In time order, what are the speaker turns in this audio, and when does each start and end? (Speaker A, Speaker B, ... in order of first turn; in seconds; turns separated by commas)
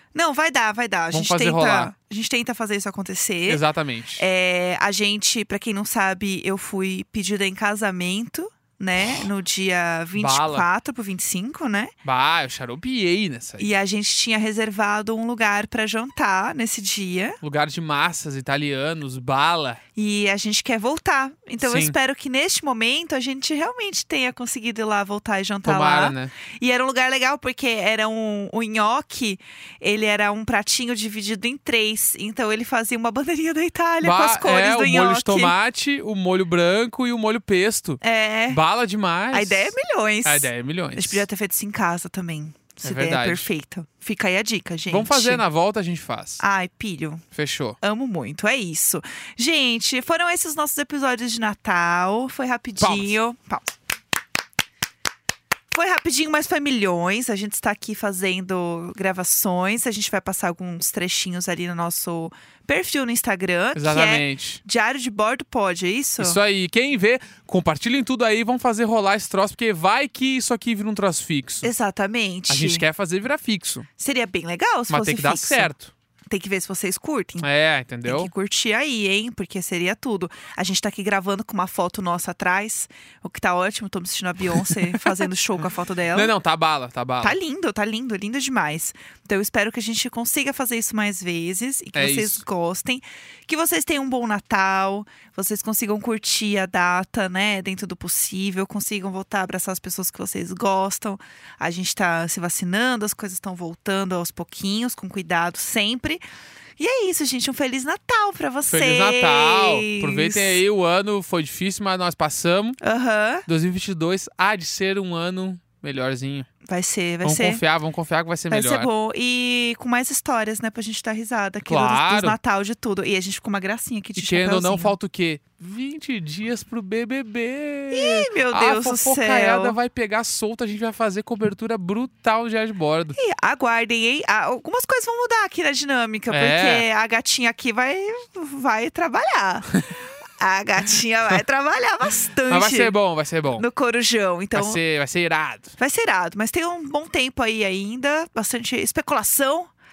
Speaker A: 0.1-3.6, Speaker B: 1.1-1.9, Speaker B: 3.5-4.2, Speaker A: 4.2-11.9, Speaker B: 10.2-10.7, Speaker B: 12.0-13.7, Speaker A: 13.6-17.4, Speaker B: 17.4-19.8, Speaker A: 20.0-35.5, Speaker B: 21.6-21.9, Speaker B: 25.6-26.3, Speaker B: 34.0-41.2, Speaker A: 38.0-38.6, Speaker A: 39.3-45.4, Speaker B: 42.8-43.5, Speaker B: 44.9-46.4, Speaker A: 46.4-47.2, Speaker B: 47.3-47.8, Speaker A: 47.8-53.7, Speaker B: 52.8-53.1, Speaker A: 55.7-66.4, Speaker B: 63.8-64.6, Speaker B: 66.2-71.7, Speaker A: 71.6-72.8, Speaker B: 72.5-73.9, Speaker A: 74.0-75.7, Speaker B: 74.9-75.9, Speaker A: 76.3-77.5, Speaker B: 77.4-78.3, Speaker A: 78.0-86.3, Speaker B: 84.7-85.1, Speaker B: 86.1-87.4, Speaker A: 87.2-106.2, Speaker B: 92.0-92.4, Speaker A: 106.8-110.6, Speaker B: 108.7-112.8, Speaker A: 112.8-113.5, Speaker B: 113.5-116.5, Speaker A: 116.7-117.6, Speaker B: 117.2-118.9, Speaker A: 118.5-125.0, Speaker B: 121.7-122.4, Speaker B: 124.2-133.2, Speaker A: 127.9-129.8, Speaker A: 133.2-139.8, Speaker B: 136.3-136.8, Speaker A: 140.4-142.9, Speaker B: 142.5-143.7, Speaker A: 143.6-144.8, Speaker B: 144.5-145.7, Speaker A: 145.8-149.7